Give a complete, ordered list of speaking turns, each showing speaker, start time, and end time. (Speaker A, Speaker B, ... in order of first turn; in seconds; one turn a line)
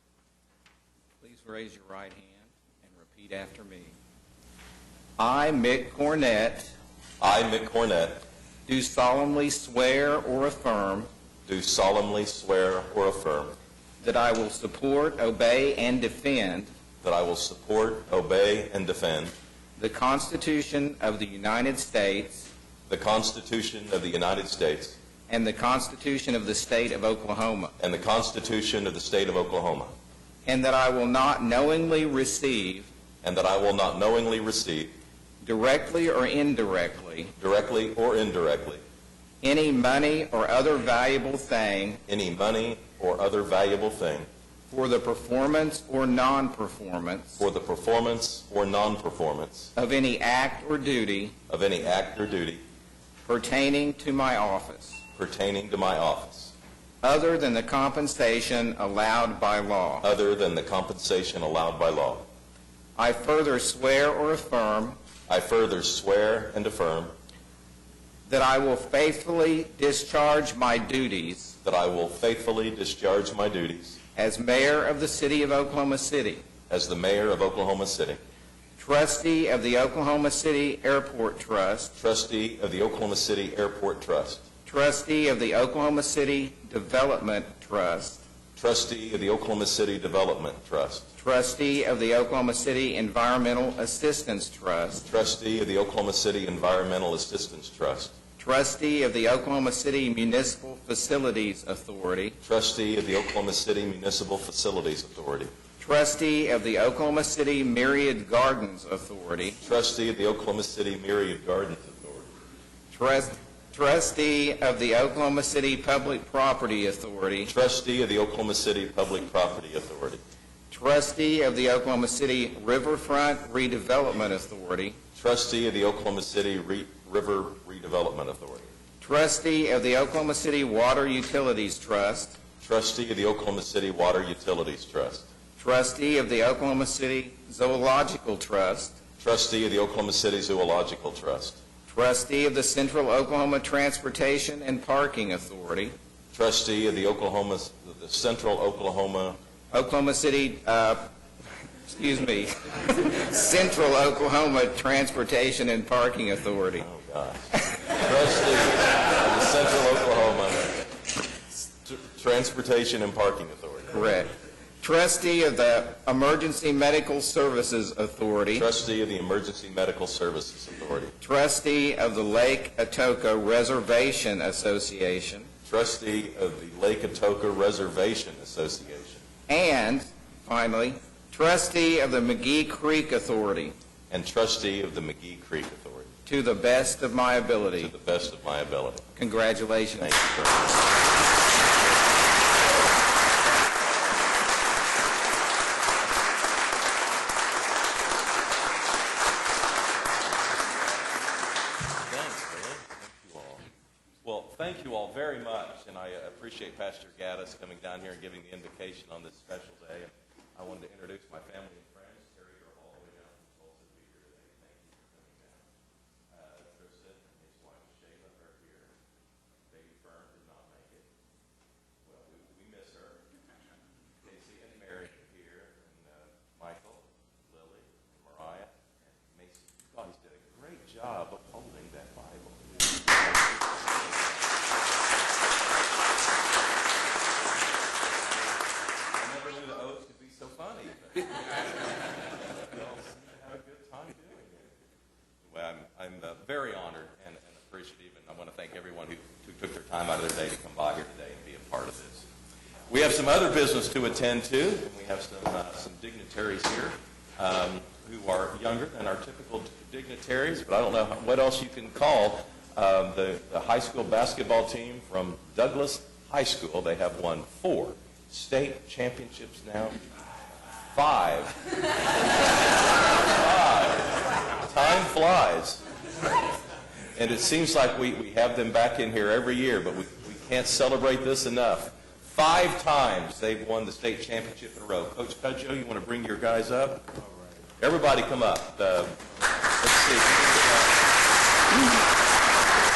Speaker A: 1.2-4.0
Speaker A: 5.2-6.7
Speaker B: 7.2-8.2
Speaker A: 8.7-11.1
Speaker B: 11.5-13.5
Speaker A: 14.0-16.7
Speaker B: 17.0-19.3
Speaker A: 19.8-22.5
Speaker B: 22.9-25.0
Speaker A: 25.3-27.7
Speaker B: 27.8-29.9
Speaker A: 30.4-32.9
Speaker B: 33.2-34.9
Speaker A: 35.4-37.3
Speaker B: 37.4-38.8
Speaker A: 39.4-42.0
Speaker B: 42.1-44.3
Speaker A: 44.7-47.4
Speaker B: 47.4-49.7
Speaker A: 49.8-51.3
Speaker B: 51.5-52.6
Speaker A: 53.2-55.0
Speaker B: 55.1-56.5
Speaker A: 57.0-60.0
Speaker B: 60.0-62.3
Speaker A: 63.0-65.0
Speaker B: 65.3-67.1
Speaker A: 68.3-71.5
Speaker B: 71.6-74.0
Speaker A: 74.2-76.4
Speaker B: 76.7-78.2
Speaker A: 78.8-81.9
Speaker B: 82.0-84.4
Speaker A: 84.7-88.2
Speaker B: 88.6-91.1
Speaker A: 91.2-95.0
Speaker B: 95.0-98.1
Speaker A: 98.4-102.4
Speaker B: 102.4-105.5
Speaker A: 105.8-109.6
Speaker B: 109.6-112.3
Speaker A: 112.9-117.5
Speaker B: 117.5-120.2
Speaker A: 120.7-125.0
Speaker B: 125.2-128.7
Speaker A: 129.0-132.4
Speaker B: 132.6-135.3
Speaker A: 135.6-139.0
Speaker B: 139.2-141.6
Speaker A: 141.9-145.9
Speaker B: 146.3-149.4
Speaker A: 149.7-151.1
Speaker A: 151.9-156.8
Speaker B: 156.8-160.8
Speaker B: 161.8-164.0
Speaker A: 163.9-168.7
Speaker B: 168.5-171.1
Speaker A: 171.2-175.5
Speaker B: 175.7-179.2
Speaker A: 179.5-183.7
Speaker B: 184.1-186.1
Speaker A: 186.2-187.9
Speaker B: 187.8-189.1
Speaker A: 189.2-190.2
Speaker B: 190.0-190.8
Speaker B: 202.0-203.7
Speaker B: 204.2-215.6
Speaker B: 216.3-218.9
Speaker B: 219.7-221.1
Speaker B: 222.0-223.2
Speaker B: 224.2-234.6
Speaker B: 238.3-238.5
Speaker B: 239.2-241.4
Speaker B: 242.3-244.7
Speaker B: 245.4-252.2
Speaker B: 252.9-269.9
Speaker B: 270.9-271.6
Speaker B: 273.1-275.8
Speaker B: 277.2-287.1
Speaker B: 287.8-289.2
Speaker B: 289.8-291.0